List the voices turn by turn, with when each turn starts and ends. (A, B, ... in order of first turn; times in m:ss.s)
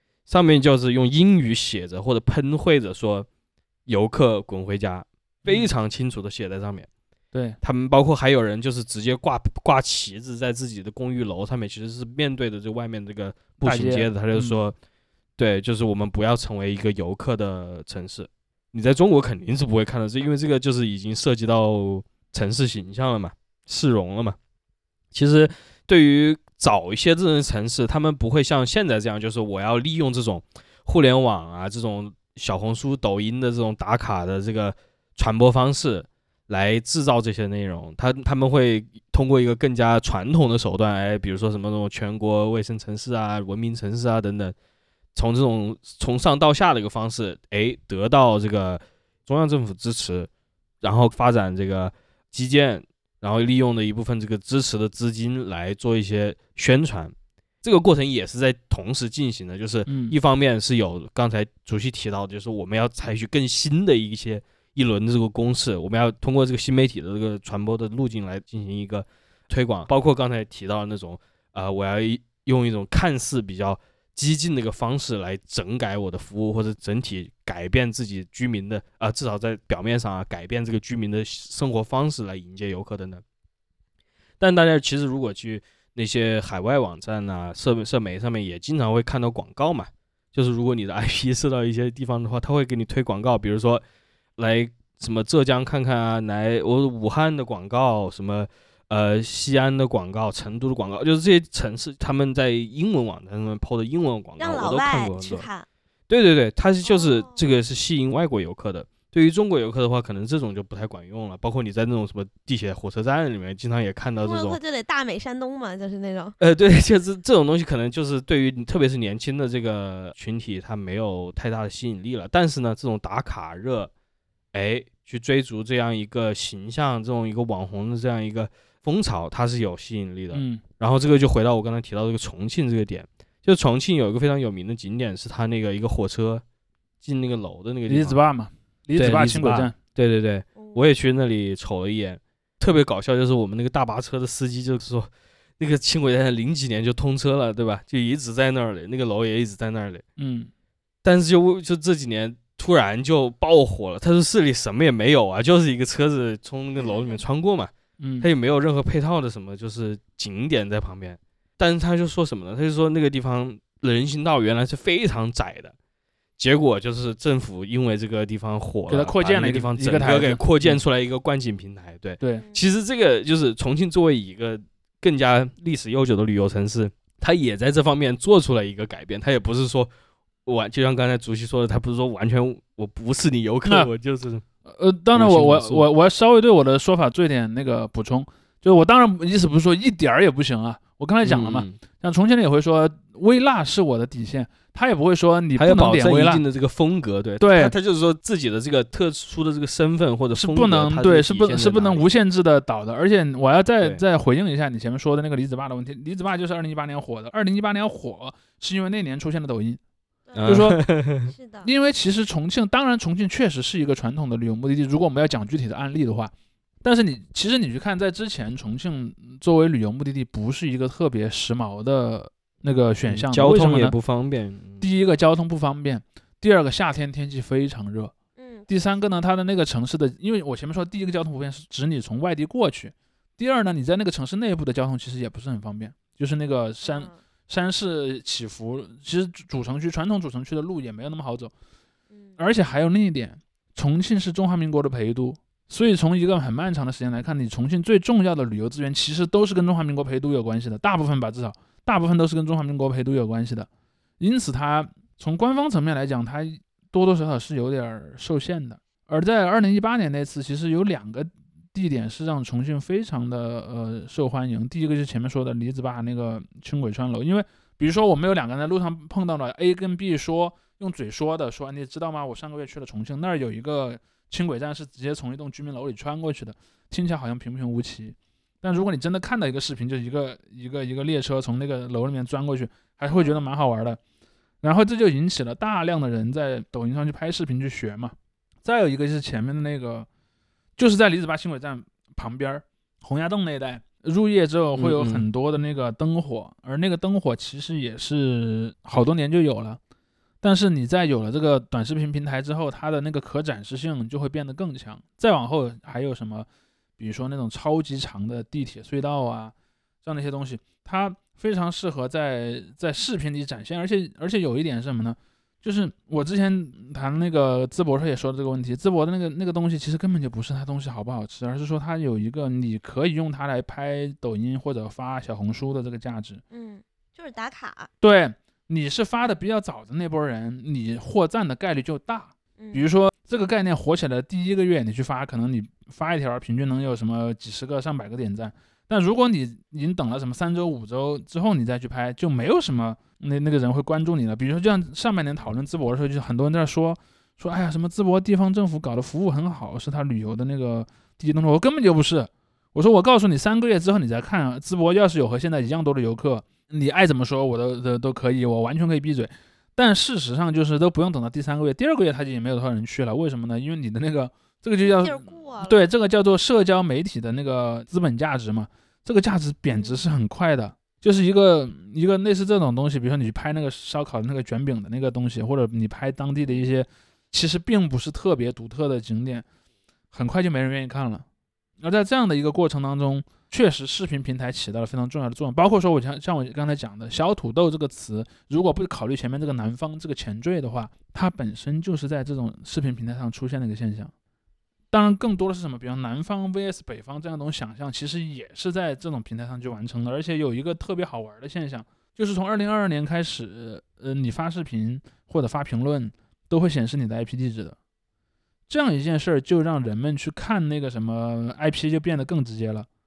0:00.3-0:03.3 A
0:03.9-0:06.9 A
0:05.4-0:05.7 B
0:07.6-0:14.7 A
0:13.6-0:14.6 B
0:15.4-0:24.4 A
0:25.1-0:44.6 A
0:45.1-0:50.3 A
0:50.8-1:23.2 A
0:59.9-1:00.2 B
1:24.4-1:33.8 A
1:34.4-1:45.5 A
1:44.4-1:45.6 C
1:46.1-1:54.6 A
1:46.9-1:47.4 C
1:54.2-1:56.4 C
1:56.4-2:03.9 A
2:04.5-2:16.4 A
2:10.3-2:10.6 B
2:17.0-2:18.2 A
2:17.9-2:19.7 B
2:19.0-2:30.0 A
2:20.6-2:20.8 C
2:30.2-2:30.5 B
2:31.0-2:45.7 A
2:36.9-2:37.2 C
2:38.0-2:38.3 B
2:46.4-2:59.9 A
2:48.9-2:50.8 B
2:52.3-2:52.6 C
3:00.4-3:04.4 A
3:04.6-3:16.4 B
3:05.1-3:05.9 A
3:11.2-3:11.8 A
3:15.6-3:22.1 A
3:17.4-3:17.7 B
3:20.4-3:29.8 B
3:30.3-3:30.6 C
3:30.3-3:31.3 A
3:30.4-3:30.8 B
3:31.2-3:31.7 C
3:31.6-3:43.9 B
3:43.1-3:44.9 A
3:44.8-3:48.1 B
3:48.4-3:48.7 C
3:48.7-4:01.5 B
3:56.8-3:57.2 C
4:02.1-4:02.4 C
4:02.4-4:13.7 B
4:14.2-4:44.0 B
4:43.1-4:43.4 C
4:44.6-4:50.1 B
4:50.8-4:59.8 B
4:54.8-4:55.3 A
5:00.4-5:06.5 B
5:07.0-5:09.5 B
5:10.0-5:26.4 B
5:26.5-5:27.9 C
5:28.0-6:19.4 B
5:32.6-5:32.9 C
6:04.8-6:05.9 C
6:09.7-6:10.0 C
6:20.1-6:21.2 B
6:21.8-6:34.1 B
6:34.9-6:47.8 B
6:48.7-6:52.9 B